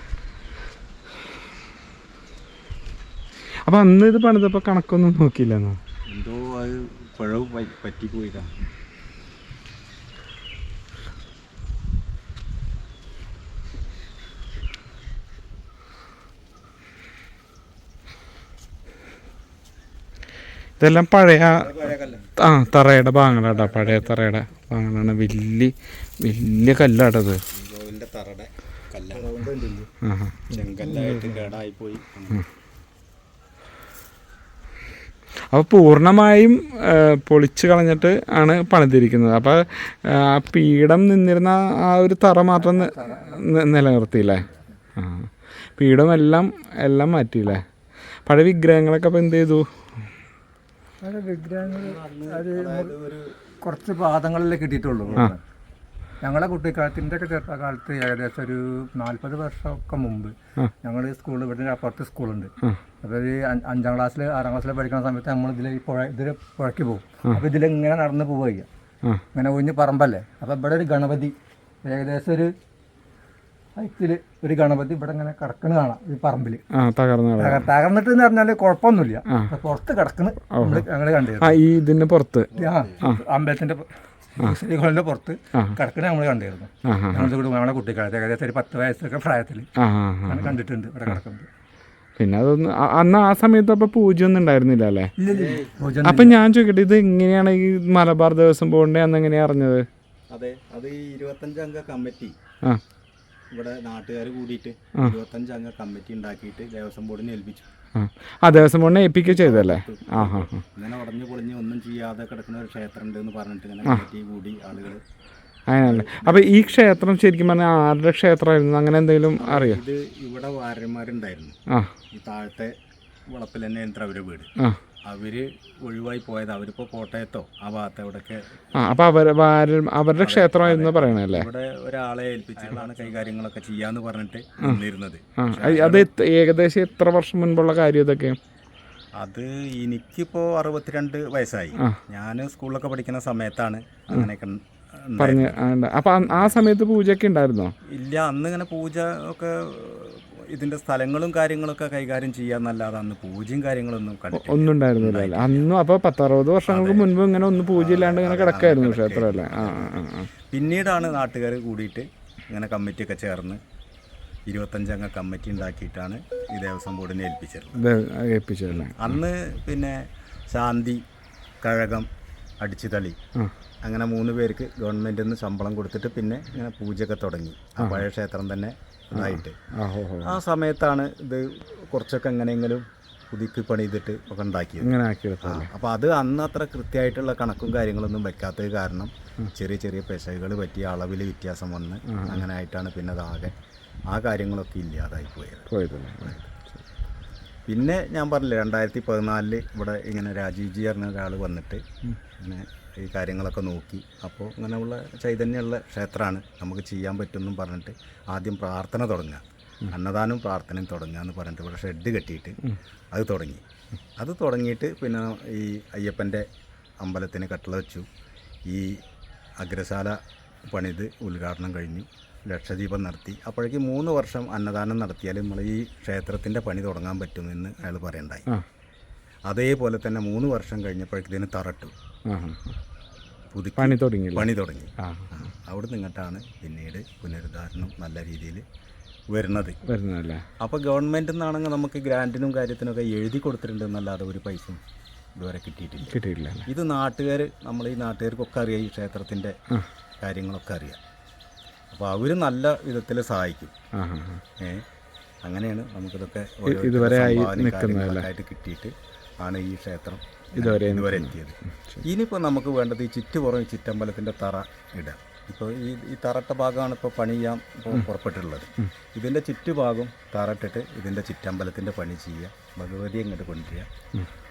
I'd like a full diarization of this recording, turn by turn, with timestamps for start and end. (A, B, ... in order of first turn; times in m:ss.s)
0:03.7-0:05.8 A
0:06.1-0:08.6 B
0:20.8-0:21.7 A
0:21.6-0:22.3 B
0:22.4-0:27.4 A
0:23.5-0:24.1 C
0:27.5-0:29.4 B
0:29.1-0:29.9 C
0:30.0-0:31.1 A
0:30.5-0:32.4 B
0:30.5-0:31.4 C
0:35.5-0:47.6 A
0:42.6-0:43.4 C
0:44.3-0:44.6 B
0:48.3-0:49.8 A
0:51.0-0:52.9 C
0:51.6-0:53.4 B
0:53.6-0:55.4 C
0:56.2-1:08.7 C
1:09.3-1:12.5 C
1:13.8-1:16.6 C
1:16.7-1:17.7 A
1:17.4-1:21.6 C
1:20.5-1:20.8 A
1:21.4-1:22.5 A
1:22.5-1:23.0 B
1:22.5-1:29.7 C
1:26.9-1:27.3 A
1:29.8-1:31.2 A
1:30.3-1:31.5 C
1:32.2-1:35.1 A
1:35.2-1:36.4 C
1:35.2-1:36.3 B
1:36.0-1:39.9 A
1:40.3-1:42.4 B
1:43.5-1:47.7 B
1:48.0-1:50.6 A
1:49.3-1:55.0 B
1:55.7-1:59.8 A
1:55.8-1:57.0 B
1:59.4-2:01.6 B
2:02.1-2:02.8 B
2:03.3-2:04.5 B
2:05.0-2:08.8 B
2:08.8-2:11.5 A
2:10.2-2:16.1 B
2:15.4-2:18.4 A
2:19.2-2:25.6 B
2:25.2-2:27.7 A
2:26.3-2:26.6 B
2:27.9-2:35.7 B
2:34.3-2:40.3 A
2:36.7-2:37.2 B
2:37.7-2:43.6 B
2:44.5-2:47.8 B
2:47.8-2:49.2 A
2:48.7-2:51.0 B
2:51.6-2:52.1 B
2:52.6-2:53.2 B
2:53.8-2:59.6 B
2:57.8-2:58.0 A
2:59.1-3:00.4 A
3:00.2-3:13.5 B
3:04.8-3:05.7 A
3:12.1-3:12.4 A
3:14.1-3:15.7 B
3:15.7-3:16.8 A
3:16.2-3:16.5 B
3:17.7-3:21.8 B
3:22.4-3:32.6 B
3:33.1-3:33.6 B
3:34.2-3:36.5 B
3:37.0-3:38.1 B
3:38.7-3:39.0 B
3:39.6-3:48.5 B
3:49.5-3:51.9 B
3:52.3-3:52.8 A
3:53.5-3:58.6 B
3:53.8-3:55.4 A
3:59.3-3:59.8 B
3:59.8-4:00.4 A
4:00.6-4:04.8 B
4:05.4-4:09.6 B
4:06.1-4:06.7 A
4:10.2-4:11.0 B
4:11.9-4:13.8 B
4:13.9-4:14.4 A
4:14.6-4:14.8 B
4:15.4-4:33.9 B
4:16.7-4:18.3 A
4:20.6-4:22.0 A